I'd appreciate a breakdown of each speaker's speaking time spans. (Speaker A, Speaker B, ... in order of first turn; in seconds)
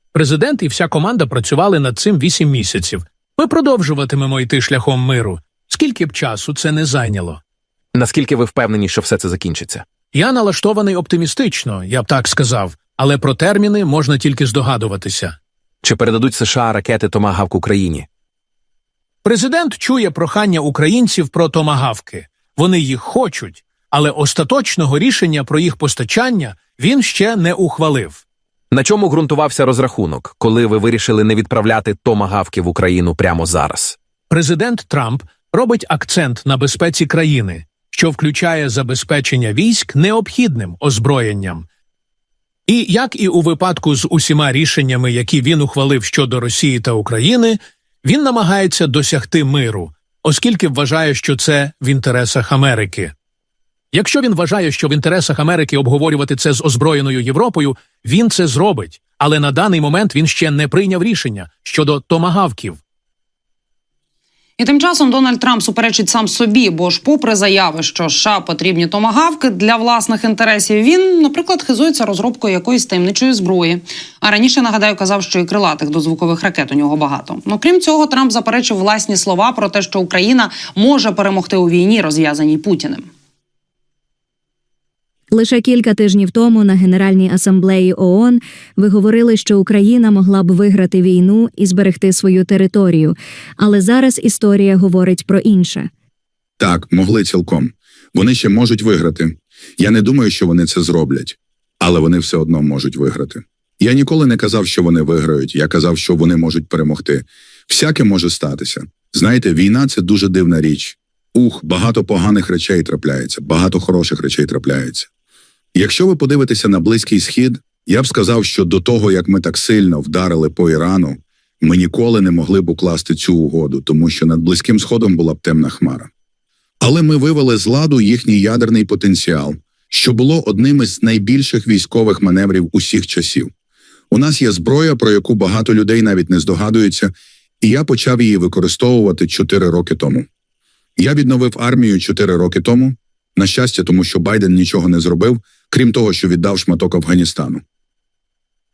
Speaker A: 0.1-7.4, 10.1-15.3, 19.2-28.2, 34.3-41.6, 42.7-53.1, 53.9-62.8
Speaker B: 7.9-9.8, 15.8-18.1, 28.7-33.9
Speaker C: 64.6-83.1
Speaker D: 85.3-95.9
Speaker E: 96.6-115.1, 115.7-126.1, 126.8-133.5, 134.1-140.3, 141.0-147.6